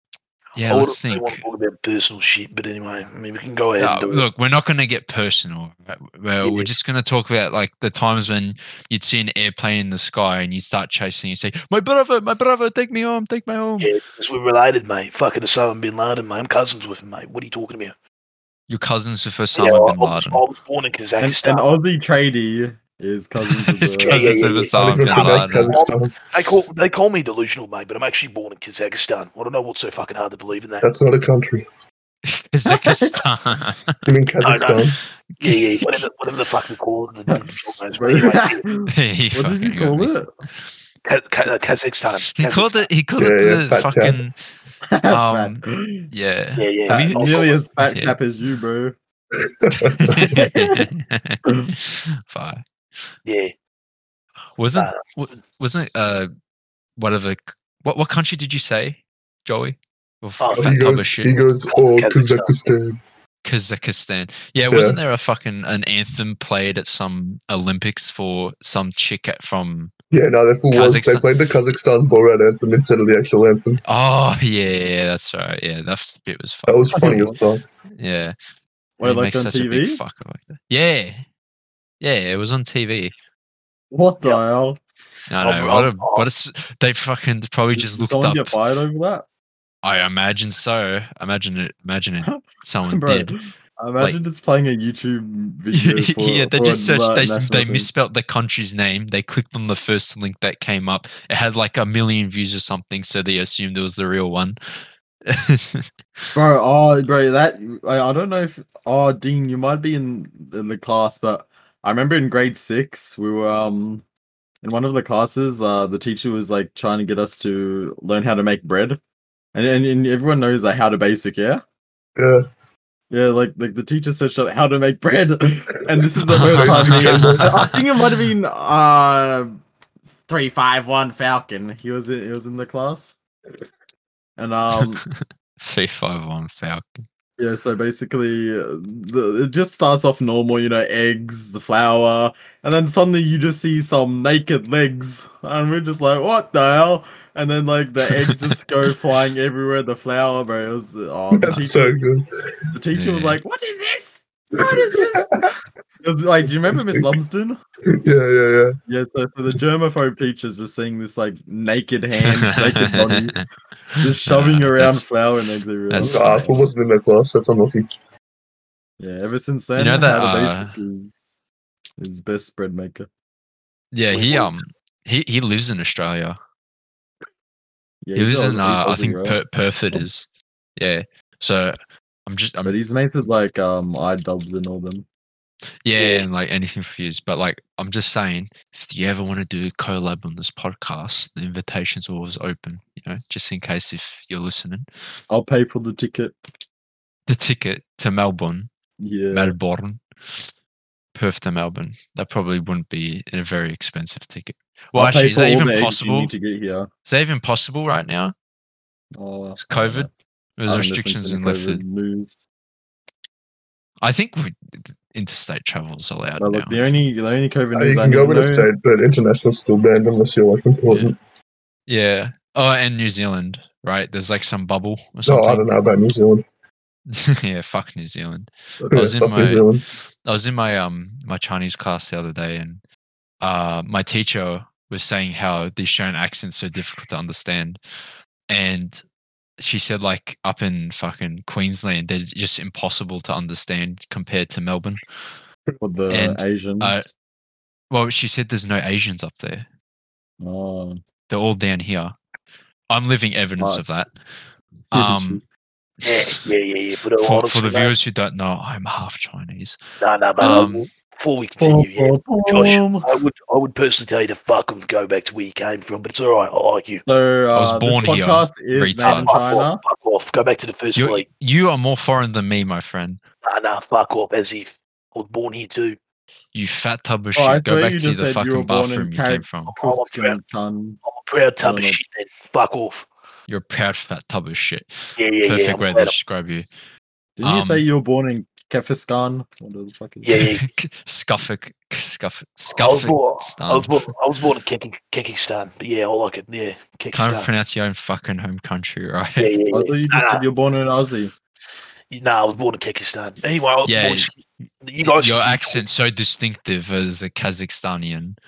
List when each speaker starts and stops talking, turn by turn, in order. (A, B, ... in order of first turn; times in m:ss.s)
0:00.5-0:01.4 A
0:00.6-0:04.2 B
0:03.8-0:13.9 A
0:06.4-0:06.7 B
0:13.8-0:17.9 B
0:18.7-0:20.4 A
0:19.5-0:21.7 B
0:21.2-0:24.4 C
0:23.5-0:25.8 A
0:24.0-0:30.9 B
0:24.7-0:26.2 D
0:30.8-0:31.6 D
0:32.3-0:34.0 A
0:32.7-0:33.2 C
0:34.0-0:35.0 D
0:34.4-0:34.8 B
0:35.4-0:36.0 A
0:35.4-0:38.6 B
0:37.9-0:40.3 C
0:38.9-0:40.7 A
0:41.0-0:42.9 B
0:42.4-0:44.4 A
0:43.2-0:44.2 D
0:44.9-0:46.1 C
0:45.1-0:48.2 A
0:46.6-0:47.6 B
0:46.9-0:49.0 C
0:49.4-0:50.4 D
0:49.8-0:52.6 A
0:50.3-0:50.8 C
0:53.2-0:53.5 B
0:54.6-0:56.3 A
0:54.7-0:55.0 B
0:57.0-1:01.3 A
1:00.4-1:00.7 B
1:00.6-1:03.0 D
1:01.7-1:02.5 B
1:03.4-1:09.9 A
1:04.7-1:05.0 D
1:10.1-1:13.8 D
1:10.7-1:11.3 A
1:13.8-1:17.3 A
1:16.7-1:17.6 D
1:16.9-1:17.4 C
1:18.0-1:18.4 A
1:19.0-1:20.0 C
1:19.0-1:21.2 A
1:22.0-1:23.1 A
1:23.9-1:24.8 C
1:25.3-1:28.5 A
1:25.4-1:26.3 B
1:27.7-1:29.2 C
1:29.8-1:33.3 A
1:32.2-1:37.9 C
1:35.7-1:44.6 A
1:45.3-1:45.9 A
1:46.3-1:54.0 C
1:54.6-1:59.0 C
1:59.5-2:01.6 C
2:02.2-2:02.4 D
2:03.1-2:09.6 C
2:06.3-2:07.8 A
2:06.5-2:07.5 D
2:10.3-2:13.2 C
2:14.4-2:15.0 C
2:15.1-2:17.0 A
2:17.4-2:32.0 C
2:31.4-2:32.3 D
2:32.7-2:37.6 C
2:32.9-2:33.4 A
2:34.6-2:35.5 D
2:36.5-2:37.2 D
2:38.0-2:38.7 D
2:38.9-2:43.4 C
2:42.2-2:45.1 A
2:44.0-2:46.6 C
2:45.9-2:46.5 A
2:46.0-2:47.9 D
2:49.0-2:51.2 C
2:49.8-2:50.7 A
2:52.0-2:53.1 C
2:53.9-2:56.4 A
2:54.1-2:54.5 B
2:58.0-2:59.4 C
2:58.1-3:02.7 A
3:02.6-3:05.0 C
3:05.8-3:15.2 A
3:15.3-3:16.4 C
3:17.3-3:18.7 A
3:19.0-3:19.6 C
3:19.3-3:20.5 A
3:21.1-3:26.3 A
3:24.9-3:26.9 C
3:27.0-3:28.3 A
3:29.2-3:30.1 C
3:29.6-3:31.8 A
3:30.7-3:32.4 C
3:34.0-3:37.0 A
3:36.4-3:38.7 C
3:37.7-3:41.2 D
3:41.9-3:45.7 A
3:45.2-3:46.4 D
3:47.1-3:52.8 A
3:48.8-3:49.8 D
3:53.4-3:57.8 A
3:58.5-3:59.0 A
3:59.6-4:05.0 A
4:05.8-4:06.9 C
4:06.1-4:07.1 A
4:07.9-4:09.7 A
4:10.4-4:11.0 C
4:11.3-4:12.2 A
4:12.9-4:15.4 A
4:14.9-4:15.4 C
4:16.0-4:16.4 A
4:16.0-4:17.9 B
4:17.2-4:19.8 A
4:20.0-4:27.0 B
4:20.4-4:20.9 A
4:20.4-4:20.7 C
4:21.6-4:23.0 C
4:27.0-4:29.8 C
4:27.5-4:29.3 A
4:29.0-4:31.2 B
4:31.0-4:33.2 A
4:33.4-4:36.0 B
4:36.5-4:39.7 A
4:37.3-4:41.0 C
4:39.7-4:40.4 B
4:41.0-4:43.1 B
4:41.6-4:42.0 C
4:43.5-4:46.7 A
4:45.2-4:46.2 B
4:47.4-4:50.3 C
4:47.4-4:47.8 A
4:50.2-4:50.7 B
4:50.3-4:54.0 A
4:52.7-4:57.5 B
4:57.1-4:59.5 A
4:59.4-5:00.4 B
4:59.7-5:01.3 C
5:02.1-5:05.8 B
5:03.8-5:04.3 A
5:05.0-5:08.4 A